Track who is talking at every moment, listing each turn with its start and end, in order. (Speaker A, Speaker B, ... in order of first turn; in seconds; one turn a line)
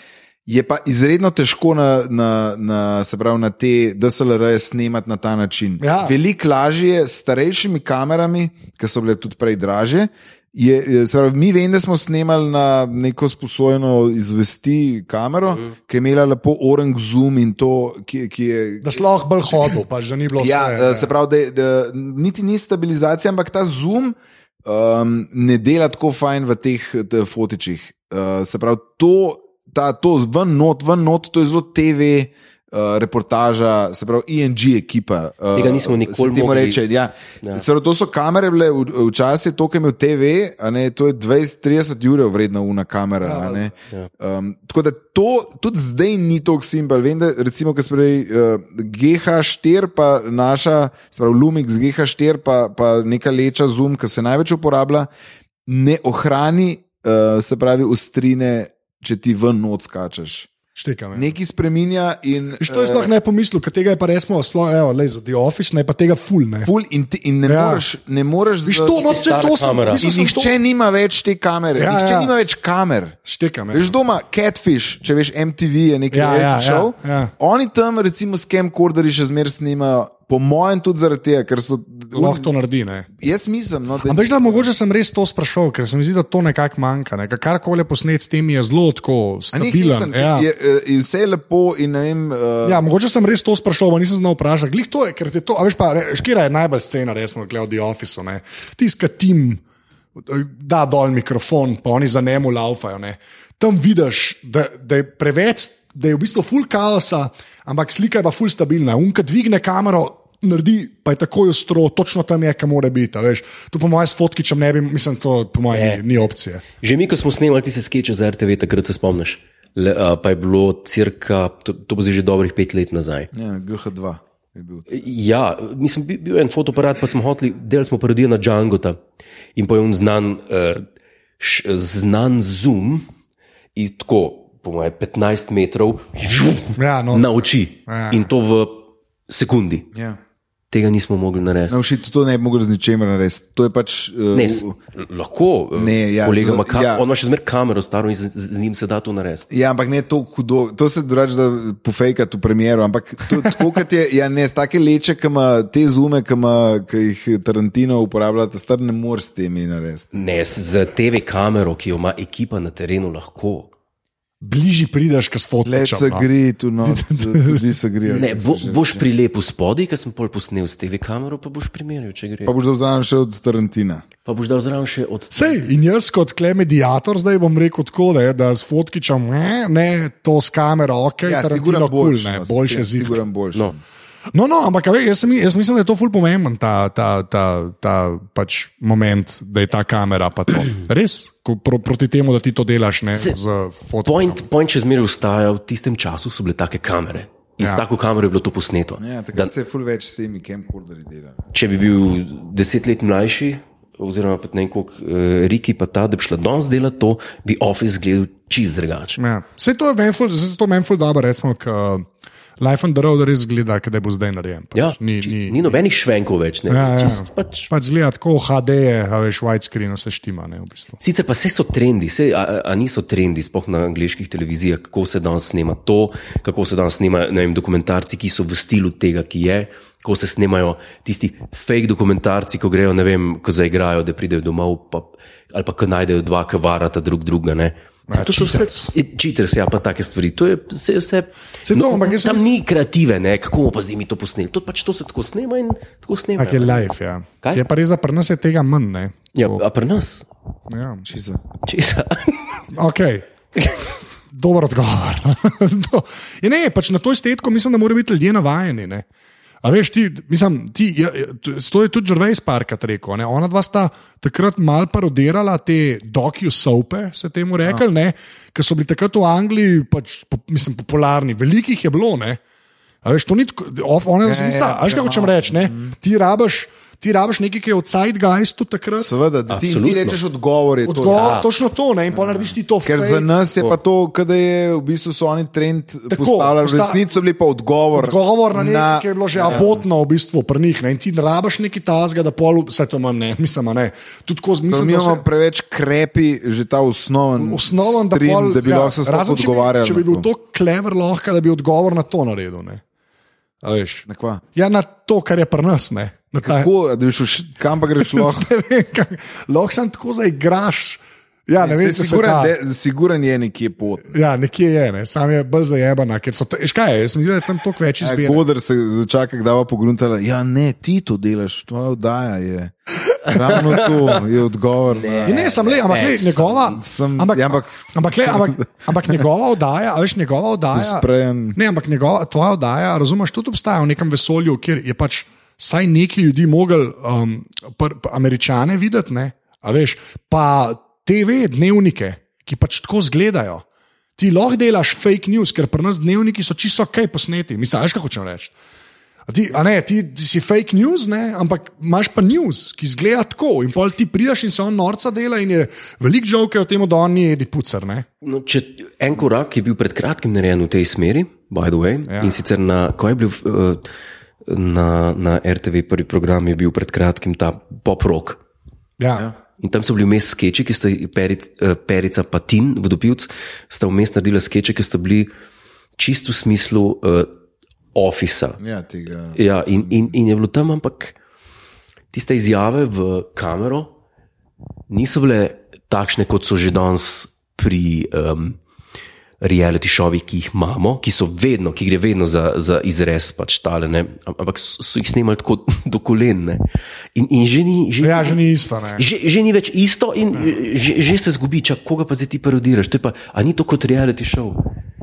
Speaker A: 0.5-19.8
Speaker B: 5.8-6.2
Speaker B: 18.8-21.1
Speaker A: 20.4-55.1
Speaker C: 35.5-36.8
Speaker B: 43.2-43.7
Speaker A: 55.7-60.5
Speaker B: 60.7-61.3
Speaker A: 61.1-63.1
Speaker B: 62.6-66.7
Speaker A: 66.6-69.4
Speaker B: 67.5-67.8
Speaker B: 68.6-70.5
Speaker C: 68.9-70.0
Speaker A: 69.9-73.2
Speaker B: 71.8-72.3
Speaker B: 73.2-73.9
Speaker A: 73.7-82.5
Speaker B: 76.1-77.3
Speaker B: 82.1-83.1
Speaker A: 83.1-84.7
Speaker B: 84.0-90.5
Speaker A: 89.5-92.8
Speaker B: 92.6-99.6
Speaker B: 100.2-116.6
Speaker C: 115.7-116.2
Speaker C: 116.8-123.3
Speaker A: 123.3-124.9
Speaker C: 124.9-129.0
Speaker C: 129.6-130.8
Speaker C: 131.4-133.0
Speaker C: 133.7-139.9
Speaker B: 136.8-138.3
Speaker A: 139.9-140.2
Speaker C: 140.7-141.8
Speaker A: 141.7-144.7
Speaker C: 144.3-149.5
Speaker A: 145.7-147.0
Speaker A: 149.5-160.1
Speaker C: 160.1-163.7
Speaker B: 164.4-166.3
Speaker A: 165.6-169.1
Speaker B: 166.8-167.7
Speaker C: 168.1-172.5
Speaker A: 172.4-174.1
Speaker C: 174.2-175.6
Speaker B: 175.3-183.2
Speaker A: 181.2-183.8
Speaker B: 184.3-194.4
Speaker C: 194.0-199.5
Speaker A: 199.0-201.4
Speaker C: 201.5-209.2
Speaker B: 209.2-212.1
Speaker B: 212.6-215.8
Speaker C: 214.7-217.7
Speaker B: 216.7-221.0
Speaker C: 221.0-246.9
Speaker B: 238.1-238.9
Speaker B: 241.7-242.4
Speaker B: 246.4-249.6
Speaker C: 249.3-250.3
Speaker B: 250.7-251.1
Speaker A: 251.1-251.4
Speaker C: 251.6-252.6
Speaker B: 252.7-253.2
Speaker C: 253.6-253.8
Speaker B: 254.3-259.0
Speaker B: 259.6-272.4
Speaker B: 273.0-279.1
Speaker A: 274.2-275.9
Speaker A: 279.0-281.4
Speaker C: 279.5-280.2
Speaker B: 280.8-283.3
Speaker C: 281.2-281.4
Speaker A: 282.1-289.8
Speaker B: 286.1-287.0
Speaker B: 287.9-295.2
Speaker A: 294.7-300.3
Speaker B: 297.4-302.8
Speaker B: 303.6-306.7
Speaker A: 304.1-304.4
Speaker A: 306.4-308.5
Speaker B: 308.0-312.5
Speaker A: 311.6-314.1
Speaker B: 314.1-318.4
Speaker A: 318.0-325.5
Speaker C: 323.2-324.2
Speaker C: 324.9-326.8
Speaker B: 325.2-343.6
Speaker A: 326.7-329.2
Speaker A: 330.7-331.6
Speaker B: 344.2-348.5
Speaker B: 349.3-358.1
Speaker C: 358.2-363.8
Speaker B: 362.1-362.4
Speaker C: 364.4-368.4
Speaker B: 369.0-369.3
Speaker C: 369.6-375.3
Speaker C: 376.0-377.3
Speaker C: 377.9-378.6
Speaker A: 378.6-380.1
Speaker C: 379.3-381.2
Speaker C: 382.1-383.9
Speaker C: 384.9-388.6
Speaker C: 389.4-396.6
Speaker C: 397.1-398.4
Speaker B: 398.0-399.0
Speaker C: 398.9-404.6